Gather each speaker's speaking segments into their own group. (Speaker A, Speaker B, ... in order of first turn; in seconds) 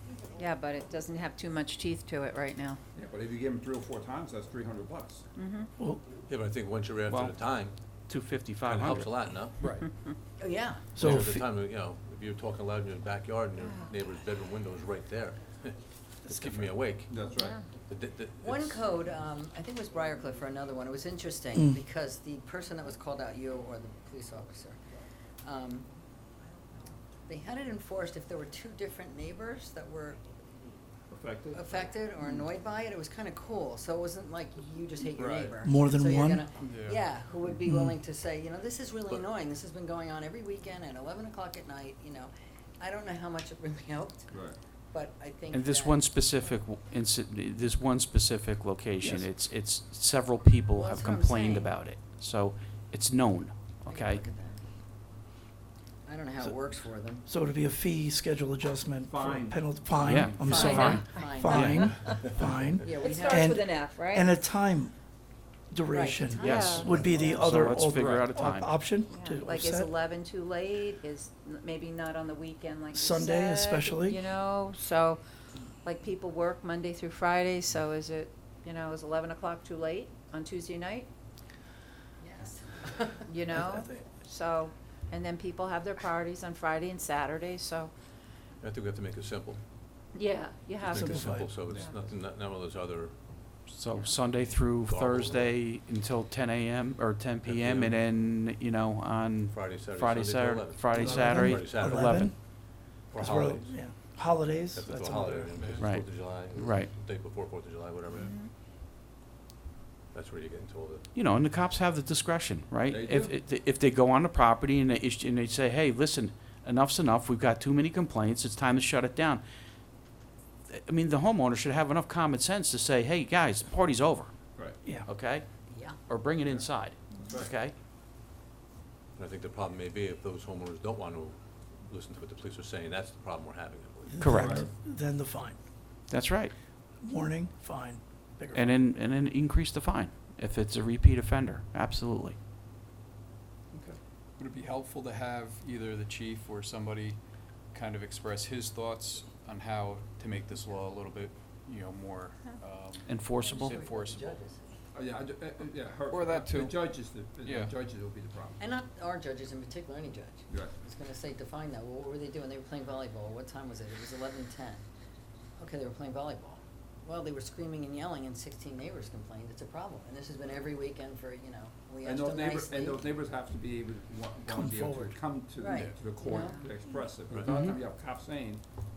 Speaker A: 0.3-2.8, 5.3-5.7, 17.3-17.6, 60.6-61.4, 62.9-64.3, 66.4-67.0, 69.1-75.2, 75.8-81.1, 83.3-87.9, 90.1-91.8, 108.2-108.5, 176.2-176.7
Speaker B: 2.9-5.2, 17.1-17.6, 31.1-31.7, 44.3-44.6, 59.0-60.5, 91.6-91.9, 100.9-101.3, 112.9-113.4, 126.4-127.5, 134.3-134.7, 143.7-144.0, 154.9-158.6, 160.5-160.7, 172.0-178.6
Speaker C: 6.3-7.8, 8.6-9.7, 10.9-17.1, 17.9-18.8, 88.6-89.6, 90.8-93.5, 94.3-95.6, 97.4-98.0, 99.5-108.4, 110.1-111.0, 129.2-134.2
Speaker D: 7.1-9.3, 45.5-54.2, 60.0-61.9, 66.4-68.9, 93.7-102.3, 105.8-106.9, 111.1-119.4, 120.7-124.4, 125.0-127.7, 134.2-134.6, 136.1-136.5, 138.5-142.3, 153.0-153.8, 177.5-177.8
Speaker E: 10.4-10.9, 18.4-24.8, 25.4-25.9, 27.2-30.2, 31.5-46.1, 50.7-51.8, 53.9-54.6, 56.0-57.2, 60.4-62.3, 62.8-63.5, 65.9-67.7, 82.2-83.2, 125.7-126.0, 153.4-154.7, 158.6-164.8, 165.6-173.1, 175.6-176.6
Speaker F: 10.9-11.4, 16.3-16.7, 35.6-36.5, 37.6-37.9, 49.0-49.3, 56.4-56.7, 57.2-65.0, 65.6-69.9, 72.9-74.2, 83.5-84.0, 90.9-91.5, 101.0-105.6, 134.1-135.7, 137.0-138.7, 174.5-175.1
Speaker G: 35.1-35.5, 36.6-37.0, 105.5-106.4, 144.4-147.2, 147.7-154.4, 156.1-157.7